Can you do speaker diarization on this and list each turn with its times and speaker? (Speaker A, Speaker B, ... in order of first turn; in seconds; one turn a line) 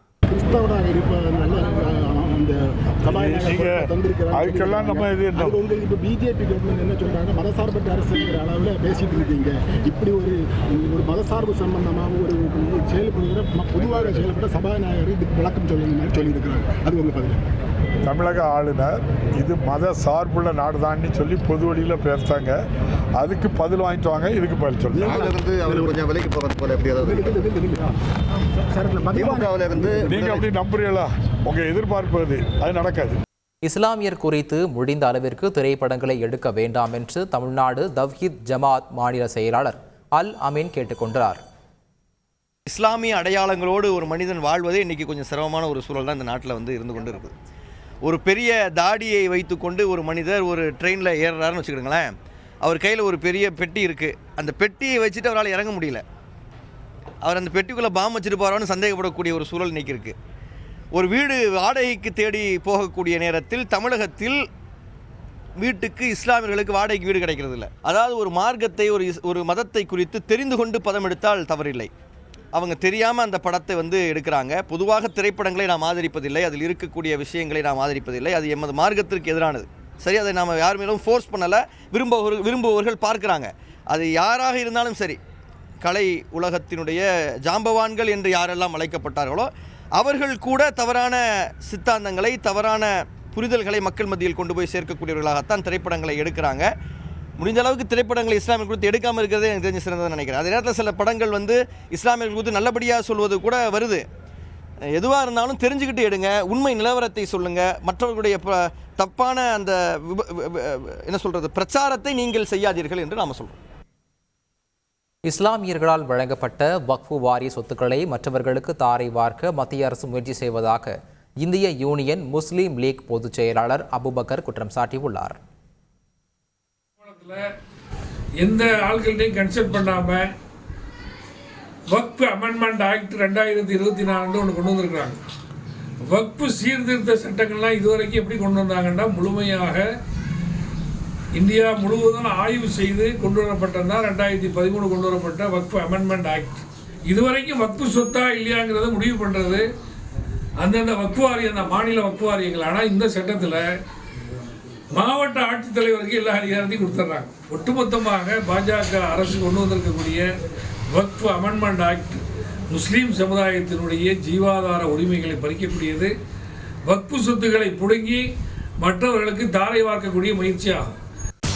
Speaker A: 0.3-17.4
Speaker B: 3.1-5.6
Speaker B: 18.1-22.6
Speaker B: 23.2-25.2
Speaker A: 25.0-26.0
Speaker C: 25.1-27.3
Speaker A: 27.0-27.9
Speaker A: 28.7-30.3
Speaker C: 29.2-30.5
Speaker B: 30.1-33.2
Speaker D: 33.6-41.4
Speaker E: 42.7-47.3
Speaker E: 48.0-52.1
Speaker E: 52.6-56.0
Speaker E: 57.2-60.2
Speaker E: 61.0-64.4
Speaker E: 65.6-71.9
Speaker E: 72.5-85.2
Speaker E: 85.8-96.7
Speaker E: 97.4-104.0
Speaker E: 104.9-113.6
Speaker D: 115.2-125.4
Speaker F: 127.0-127.5
Speaker F: 128.4-130.3
Speaker F: 131.9-135.2
Speaker F: 136.0-139.8
Speaker F: 141.3-149.7
Speaker F: 150.6-153.7
Speaker F: 154.9-160.3
Speaker F: 160.9-166.1
Speaker F: 166.9-168.3
Speaker F: 168.8-170.9